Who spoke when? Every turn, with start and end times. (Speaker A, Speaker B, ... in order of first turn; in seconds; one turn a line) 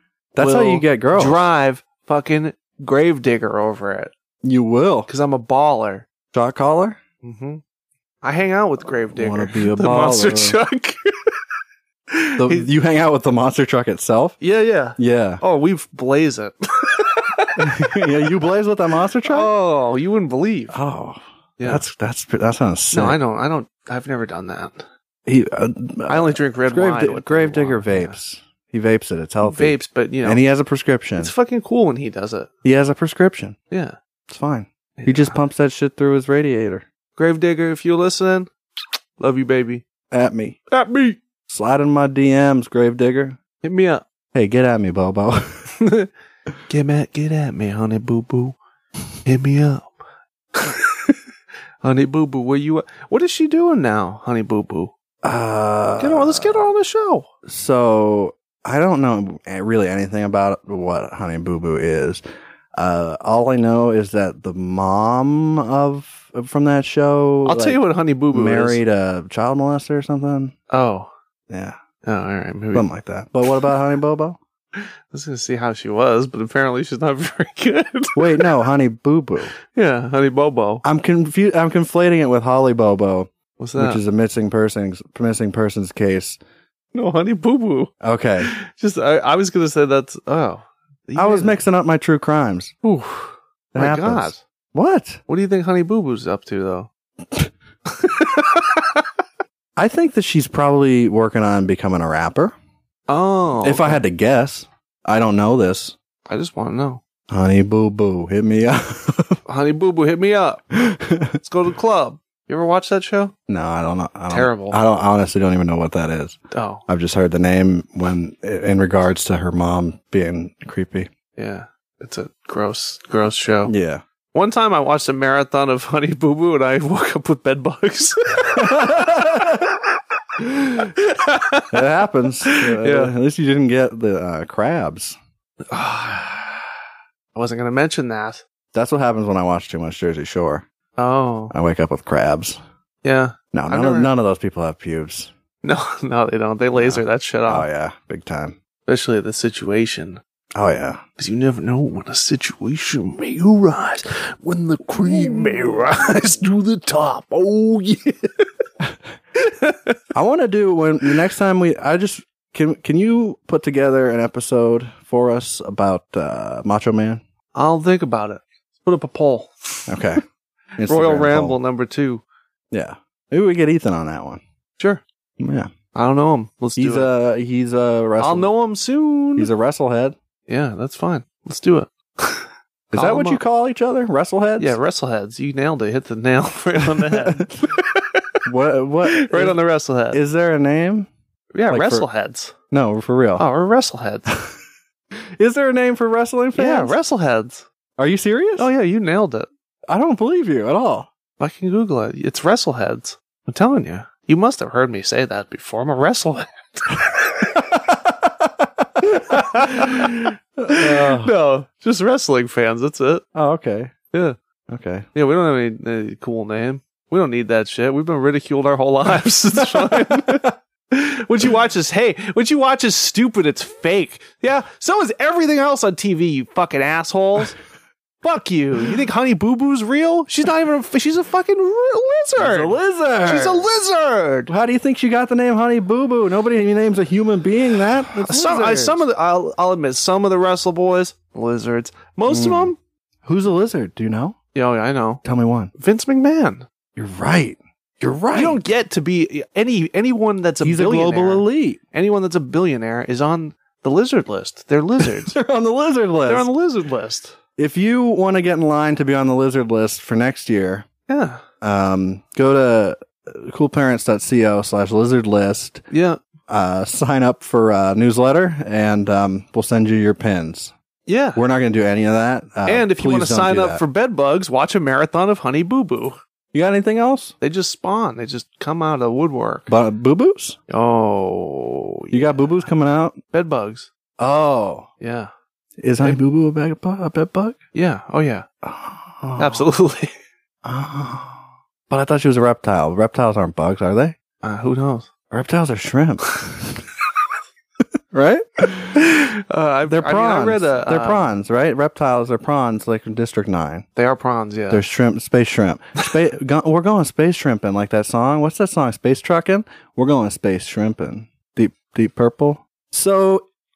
Speaker A: 0.3-1.4
Speaker B: 0.4-4.1
Speaker A: 4.4-5.1
Speaker B: 5.1-6.1
Speaker A: 6.3-7.0
Speaker B: 7.2-7.6
Speaker B: 8.2-11.3
Speaker A: 9.2-10.6
Speaker B: 12.1-12.7
Speaker A: 12.4-14.4
Speaker B: 14.4-17.9
Speaker A: 15.0-15.4
Speaker A: 17.6-19.5
Speaker B: 19.2-20.8
Speaker A: 20.7-23.2
Speaker B: 21.6-21.8
Speaker B: 22.9-24.8
Speaker A: 25.2-31.3
Speaker B: 26.1-28.1
Speaker B: 29.4-30.4
Speaker B: 31.2-32.5
Speaker A: 32.6-33.5
Speaker B: 33.7-34.0
Speaker A: 34.3-36.9
Speaker B: 35.0-35.3
Speaker B: 37.2-38.5
Speaker B: 39.2-39.8
Speaker A: 40.1-40.6
Speaker B: 40.7-41.2
Speaker A: 41.5-43.4
Speaker B: 43.6-44.0
Speaker A: 44.3-45.7
Speaker B: 45.8-46.1
Speaker B: 46.7-48.5
Speaker B: 49.2-49.9
Speaker B: 50.5-51.1
Speaker B: 51.8-54.9
Speaker A: 55.2-56.7
Speaker B: 56.0-57.3
Speaker A: 57.5-62.2
Speaker A: 62.8-67.8
Speaker B: 67.5-68.8
Speaker A: 68.3-70.5
Speaker B: 70.7-71.1
Speaker A: 71.5-71.8
Speaker B: 72.0-72.9
Speaker A: 72.7-74.4
Speaker B: 74.7-78.5
Speaker A: 78.1-79.5
Speaker B: 79.7-80.8
Speaker A: 80.8-86.4
Speaker B: 83.6-84.0
Speaker B: 86.9-91.6
Speaker A: 88.0-88.5
Speaker A: 91.1-95.2
Speaker B: 93.8-94.4
Speaker B: 95.3-96.9
Speaker B: 97.9-98.8
Speaker A: 99.8-102.5
Speaker B: 103.1-104.0
Speaker A: 103.6-106.0
Speaker B: 106.3-107.0
Speaker A: 107.3-109.4
Speaker B: 109.5-110.8
Speaker A: 110.8-111.4
Speaker B: 111.4-113.3
Speaker A: 113.5-121.1
Speaker B: 114.3-114.8
Speaker B: 116.5-116.8
Speaker B: 121.3-123.7
Speaker A: 123.6-124.0
Speaker B: 124.3-129.6
Speaker A: 128.5-129.6
Speaker B: 130.4-131.9
Speaker A: 131.7-135.2
Speaker B: 132.4-133.1
Speaker B: 135.7-136.7
Speaker B: 137.3-138.4
Speaker A: 138.7-140.6
Speaker B: 141.0-141.5
Speaker A: 141.5-142.6
Speaker B: 143.0-144.1
Speaker A: 143.5-145.3
Speaker B: 145.6-147.7
Speaker A: 146.7-148.6
Speaker B: 148.8-150.2
Speaker A: 150.5-151.0
Speaker B: 151.2-158.5
Speaker A: 155.0-155.5
Speaker B: 159.4-159.9
Speaker A: 160.1-167.2
Speaker B: 167.5-170.1
Speaker A: 169.9-170.2
Speaker A: 170.8-171.6
Speaker B: 170.8-172.2
Speaker A: 172.7-174.4
Speaker A: 175.4-175.7
Speaker B: 175.9-177.1
Speaker A: 176.8-178.5
Speaker B: 178.2-179.5
Speaker A: 179.3-180.2
Speaker B: 180.5-183.4
Speaker A: 182.9-184.8
Speaker B: 184.6-188.2
Speaker A: 187.0-187.5
Speaker A: 188.4-189.6
Speaker B: 189.0-190.2
Speaker A: 190.1-191.1
Speaker B: 191.5-192.5
Speaker A: 191.7-192.1
Speaker A: 192.7-193.4
Speaker B: 193.4-194.3
Speaker A: 195.4-197.0
Speaker B: 196.5-197.6
Speaker A: 198.0-198.7
Speaker B: 198.6-199.5
Speaker A: 199.9-201.1
Speaker B: 201.4-207.6
Speaker A: 207.7-208.8
Speaker B: 209.1-213.2
Speaker A: 209.6-211.3
Speaker A: 213.3-213.9
Speaker A: 214.7-215.1
Speaker B: 215.1-227.6
Speaker A: 219.6-220.4
Speaker B: 228.2-234.5
Speaker A: 232.3-233.7
Speaker A: 234.5-239.0
Speaker B: 238.2-242.8
Speaker A: 242.3-242.7
Speaker A: 243.2-244.3
Speaker B: 244.5-245.2
Speaker A: 245.2-245.7
Speaker B: 245.8-246.7
Speaker A: 246.9-248.6
Speaker B: 248.3-255.4
Speaker A: 250.6-251.8
Speaker A: 255.0-256.5
Speaker B: 256.2-257.4
Speaker A: 257.6-260.9
Speaker B: 261.1-261.4
Speaker A: 261.6-265.8
Speaker B: 265.9-266.2
Speaker A: 266.5-270.7
Speaker B: 271.1-271.4
Speaker A: 271.3-273.8
Speaker B: 272.6-276.2
Speaker A: 276.5-277.3
Speaker B: 277.4-279.7
Speaker A: 279.7-280.6
Speaker B: 280.7-282.4
Speaker A: 282.1-283.2
Speaker B: 283.3-283.9
Speaker A: 284.2-284.9
Speaker B: 285.0-285.3
Speaker A: 285.8-287.6
Speaker B: 287.7-288.4
Speaker A: 288.6-289.7
Speaker B: 289.4-290.1
Speaker A: 290.6-294.1
Speaker B: 294.4-295.1
Speaker A: 295.3-296.7
Speaker A: 298.1-299.0
Speaker B: 298.9-301.3
Speaker A: 299.9-303.9
Speaker B: 304.0-304.8
Speaker A: 304.7-313.4